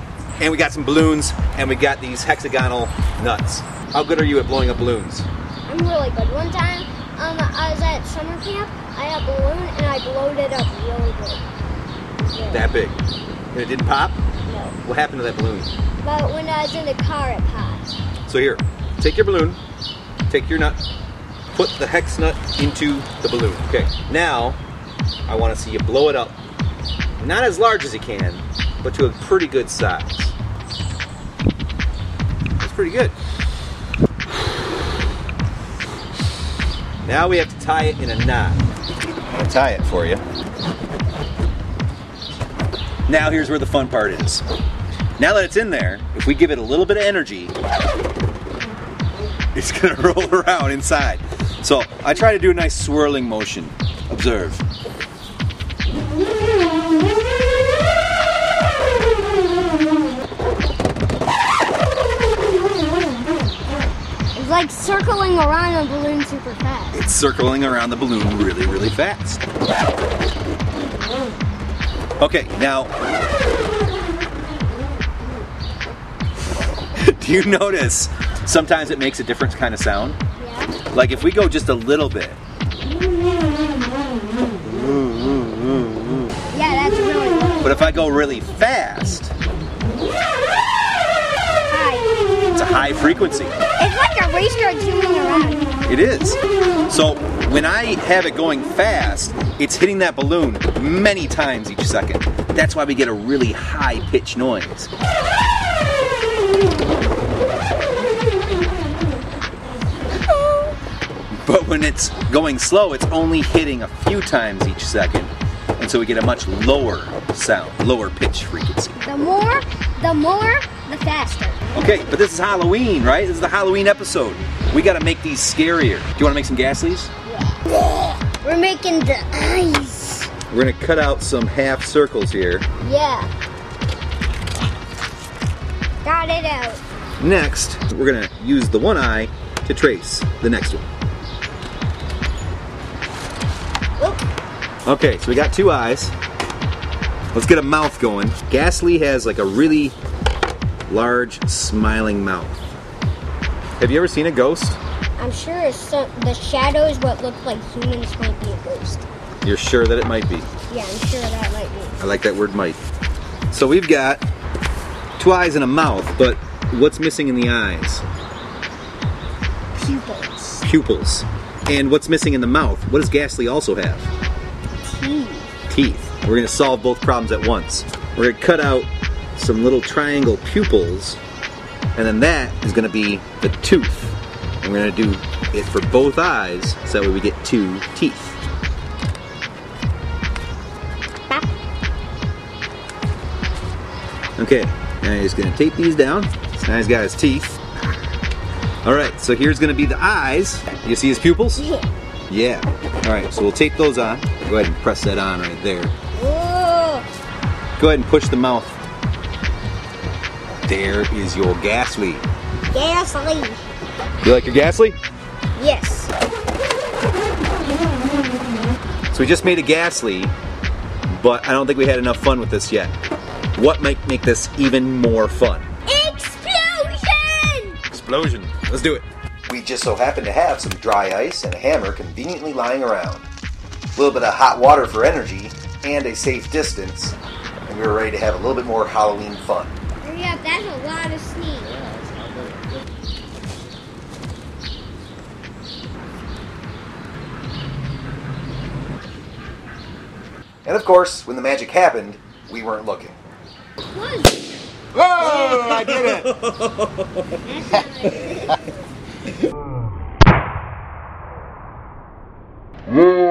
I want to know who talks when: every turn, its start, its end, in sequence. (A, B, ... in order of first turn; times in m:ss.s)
0:00.4-0:05.3 A
0:05.7-0:11.4 B
0:12.2-0:12.7 B
0:12.5-0:13.0 A
0:13.5-0:14.2 A
0:14.5-0:14.8 B
0:14.8-0:15.7 A
0:16.0-0:18.0 B
0:18.2-0:19.6 A
0:20.3-0:20.8 A
0:21.5-0:24.6 A
0:25.3-0:26.4 A
0:27.2-0:30.3 A
0:32.6-0:33.1 A
0:37.0-0:38.6 A
0:39.3-0:40.2 A
0:43.1-0:44.4 A
0:45.2-0:47.5 A
0:49.5-0:54.6 A
1:04.3-1:07.0 B
1:06.9-1:09.4 A
1:12.2-1:12.9 A
1:16.9-1:20.2 A
1:20.4-1:20.7 B
1:20.9-1:22.4 A
1:26.5-1:27.6 B
1:27.6-1:29.3 A
1:31.7-1:32.1 B
1:32.5-1:33.6 A
1:33.8-1:35.7 B
1:35.8-1:44.9 A
1:50.2-1:50.7 B
1:51.4-1:58.9 A
1:59.0-2:01.6 B
2:01.7-2:07.1 A
2:07.3-2:10.3 B
2:10.5-2:12.6 A
2:12.8-2:13.3 B
2:16.0-2:16.8 B
2:17.2-2:20.8 A
2:24.0-2:24.2 B
2:24.8-2:26.1 A
2:27.3-2:29.9 A
2:30.9-2:32.6 A
2:33.8-2:34.8 A
2:35.2-2:39.0 B
2:39.4-2:40.5 A
2:40.7-2:42.0 B
2:42.0-2:42.8 A
2:43.5-2:44.2 A
2:45.2-2:48.0 A
2:49.8-2:50.6 B
2:50.6-2:54.1 A
2:54.8-2:55.5 B
2:55.7-3:01.2 A
3:02.0-3:08.4 A
3:14.4-3:17.6 A
3:18.8-3:21.6 A
3:21.6-3:21.9 B
3:22.3-3:25.9 A
3:26.1-3:27.0 B
3:27.8-3:28.8 A
3:30.6-3:32.2 A
3:32.7-3:33.6 B
3:34.2-3:35.0 A
3:35.6-3:36.1 B
3:39.1-3:40.3 A
3:41.1-3:42.9 A
3:43.5-3:45.7 A
3:45.9-3:47.8 B
3:47.9-3:53.3 A
3:54.0-3:59.7 A
4:00.0-4:02.1 B
4:10.6-4:13.2 A
4:13.9-4:14.4 B
4:14.9-4:16.7 A
4:15.2-4:16.0 B
4:17.3-4:18.7 B